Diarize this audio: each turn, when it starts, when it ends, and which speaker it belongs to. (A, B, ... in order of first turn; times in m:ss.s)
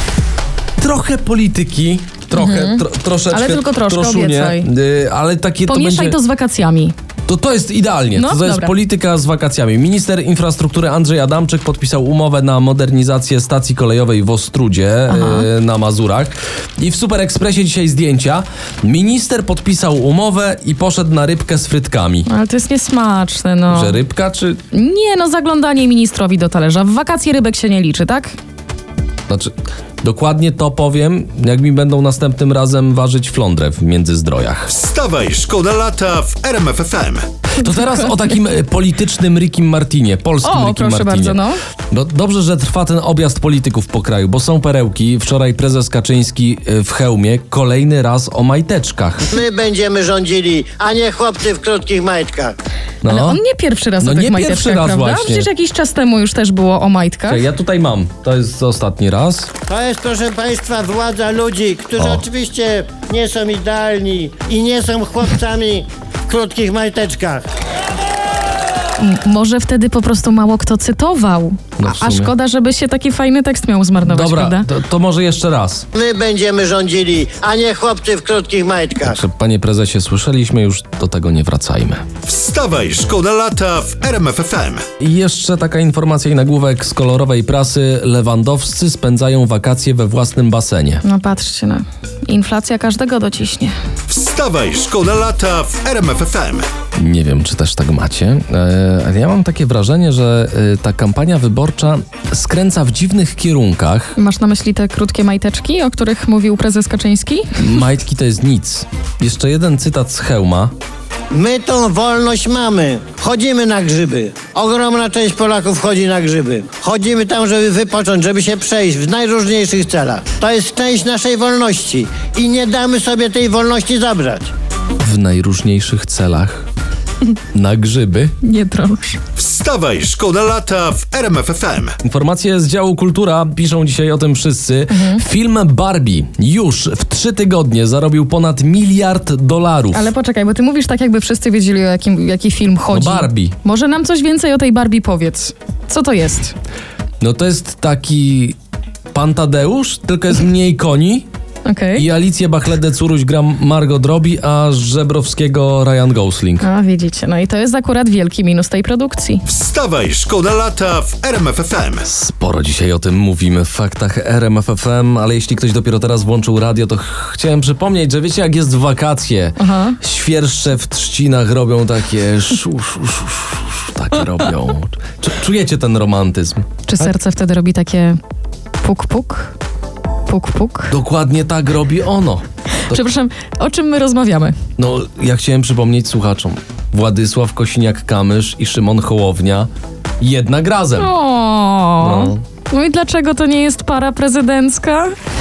0:00.8-0:06.2 A
0:02.3-0:04.7 B
0:05.6-0:06.9 B
0:07.3-0:22.3 A
0:08.1-0:08.7 B
0:15.1-0:15.5 B
0:22.2-0:24.0 B
0:23.7-0:24.6 A
0:24.7-0:28.3 B
0:29.3-0:34.7 A
0:34.7-0:37.3 C
0:37.6-0:49.3 A
0:40.4-0:41.6 B
0:49.3-0:52.5 D
0:53.0-0:53.4 A
0:53.0-0:57.4 B
0:54.0-0:55.5 A
0:57.3-0:59.5 A
0:59.7-1:07.4 D
1:02.0-1:02.2 A
1:09.0-1:14.7 B
1:11.8-1:12.3 A
1:14.0-1:15.9 A
1:15.9-1:19.2 D
1:19.0-1:22.0 A
1:22.2-1:24.8 C
1:25.0-1:31.0 A
1:31.0-1:33.7 B
1:34.1-1:36.7 C
1:37.0-1:44.1 A
1:44.1-1:47.5 B
1:47.6-1:50.7 A
1:51.3-2:04.5 D
2:05.0-2:06.7 A
2:07.5-2:08.3 A
2:08.4-2:09.2 B
2:09.4-2:11.9 C
2:12.0-2:20.1 A
2:14.9-2:15.2 B
2:19.9-2:26.5 B
2:22.9-2:23.5 A
2:27.2-2:28.6 A
2:29.1-2:31.3 A
2:31.6-2:32.1 B
2:32.0-2:36.6 A
2:36.6-2:39.4 B
2:39.5-2:42.1 C
2:42.0-2:56.7 A
2:49.6-2:50.0 B
2:56.8-2:58.2 B
2:58.8-2:59.5 B
3:00.2-3:00.9 B
3:00.9-3:03.0 A
3:02.8-3:04.6 B
3:04.8-3:09.7 A
3:10.2-3:11.1 A
3:11.0-3:15.1 B
3:12.0-3:12.4 A